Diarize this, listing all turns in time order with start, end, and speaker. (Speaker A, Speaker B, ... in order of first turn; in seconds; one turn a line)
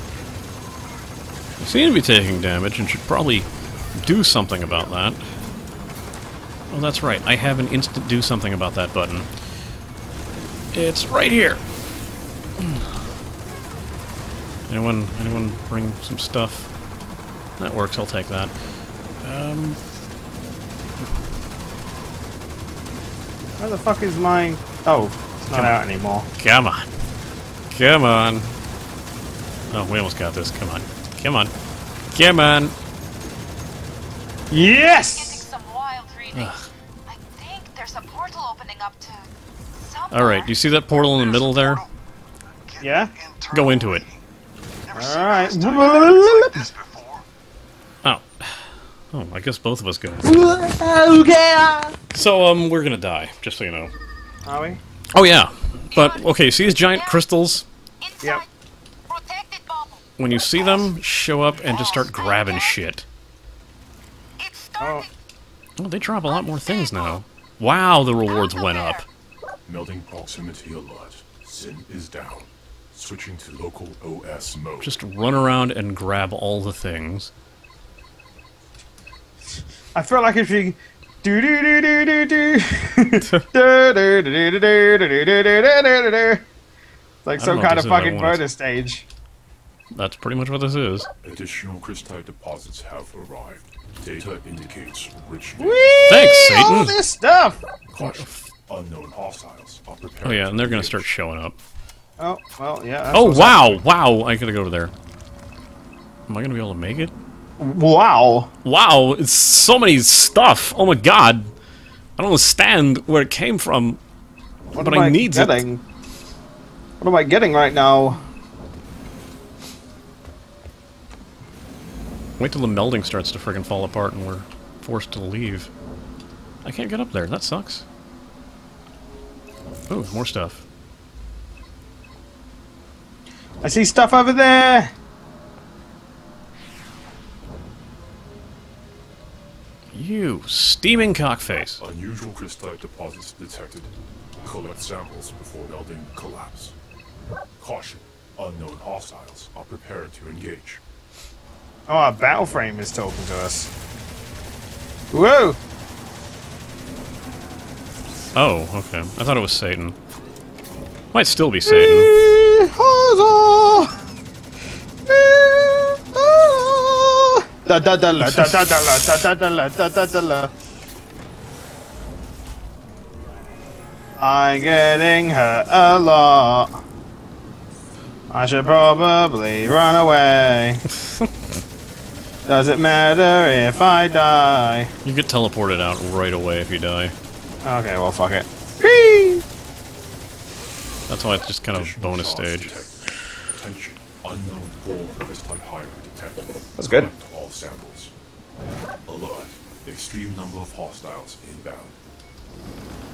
Speaker A: 1.6-5.2
Speaker A: 6.7-9.3
Speaker A: 10.7-11.6
Speaker A: 14.7-16.7
Speaker A: 17.6-18.5
Speaker A: 19.2-19.8
Speaker B: 23.6-26.3
Speaker A: 25.5-25.8
Speaker A: 26.4-26.9
Speaker A: 27.7-28.6
Speaker A: 29.7-31.5
Speaker A: 32.1-32.7
Speaker B: 34.5-35.4
Speaker C: 35.2-36.5
Speaker A: 36.3-36.6
Speaker C: 37.1-40.5
Speaker A: 40.1-41.8
Speaker B: 42.8-43.1
Speaker A: 43.5-44.0
Speaker B: 44.9-46.7
Speaker A: 48.0-50.2
Speaker B: 50.2-51.9
Speaker A: 52.1-53.9
Speaker B: 54.4-54.8
Speaker A: 55.1-57.6
Speaker C: 56.8-57.1
Speaker C: 58.0-58.4
Speaker C: 59.1-60.0
Speaker A: 60.2-63.0
Speaker C: 61.7-62.7
Speaker C: 64.4-65.0
Speaker B: 64.8-65.1
Speaker A: 65.8-69.0
Speaker C: 66.3-67.2
Speaker C: 68.3-69.0
Speaker D: 69.7-75.0
Speaker A: 74.8-77.3
Speaker B: 79.9-86.4
Speaker B: 87.2-89.0
Speaker A: 87.4-88.4
Speaker A: 89.9-91.1
Speaker D: 91.2-96.3
Speaker B: 95.6-97.6
Speaker A: 96.1-97.0
Speaker D: 97.9-101.1
Speaker A: 100.2-101.5
Speaker B: 102.2-103.8
Speaker A: 103.1-104.9
Speaker A: 106.3-107.1
Speaker B: 107.6-108.5
Speaker A: 108.6-111.5
Speaker A: 112.2-114.0
Speaker A: 114.7-115.6
Speaker B: 114.7-115.8
Speaker B: 117.0-118.2
Speaker A: 122.4-125.7
Speaker A: 126.6-127.8
Speaker A: 129.9-130.6
Speaker B: 133.6-134.9
Speaker A: 139.9-141.8
Speaker D: 141.8-143.9
Speaker D: 144.4-146.7
Speaker D: 147.6-150.8
Speaker B: 151.9-153.7
Speaker B: 155.1-155.6
Speaker A: 158.3-159.9
Speaker A: 161.1-162.1
Speaker B: 161.7-163.9
Speaker B: 165.1-170.5
Speaker B: 174.2-176.8
Speaker B: 178.3-180.9
Speaker B: 182.4-184.9
Speaker A: 185.0-187.1
Speaker B: 187.6-189.4
Speaker A: 191.1-192.8
Speaker D: 191.7-198.1
Speaker B: 196.8-197.1
Speaker D: 199.1-201.9